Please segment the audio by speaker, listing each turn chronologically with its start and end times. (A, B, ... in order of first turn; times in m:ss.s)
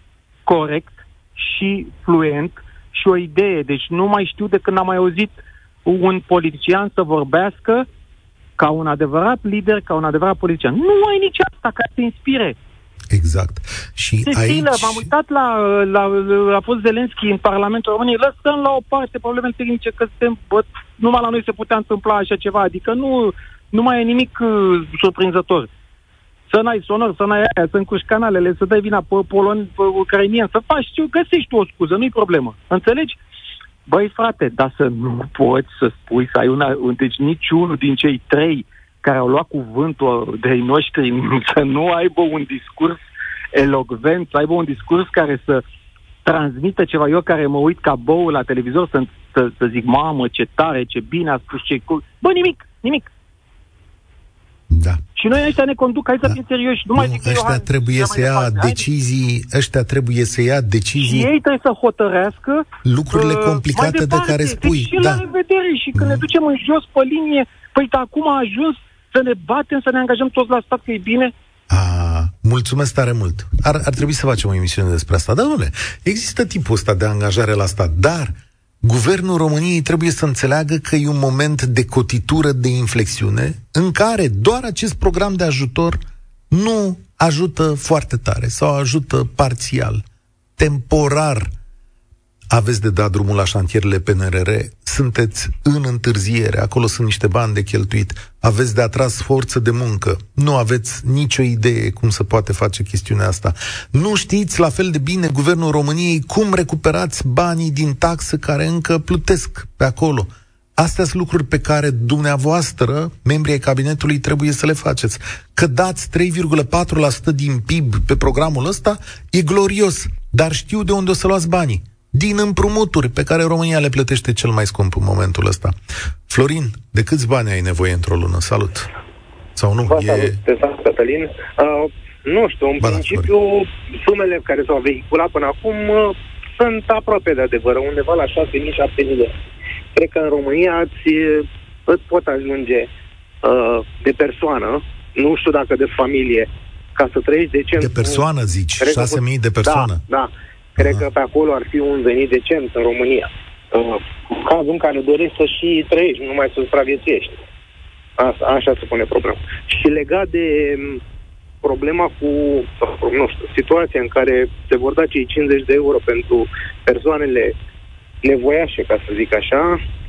0:00.5-0:07.9 A
0:08.6-0:12.6 A
0:13.1-0:15.1 B
0:14.2-0:25.7 A
0:26.5-0:33.2 A
0:33.9-0:43.0 A
0:43.5-0:45.6 A
0:46.2-0:53.1 A
0:54.7-0:55.0 B
0:55.2-0:58.8 A
0:57.0-1:01.3 B
1:01.0-1:11.3 A
1:02.8-1:05.3 B
1:06.0-1:06.3 B
1:11.7-1:26.0 B
1:26.5-1:30.0 B
1:30.6-1:31.5 B
1:32.5-2:05.8 B
2:06.3-2:08.9 B
2:09.6-2:10.4 B
2:09.9-2:19.4 C
2:12.8-2:13.3 B
2:20.0-2:22.9 C
2:23.4-2:28.2 C
2:27.8-2:30.0 B
2:28.8-2:37.4 C
2:30.8-2:31.1 B
2:38.2-2:41.0 C
2:41.6-2:47.5 C
2:48.2-2:49.8 C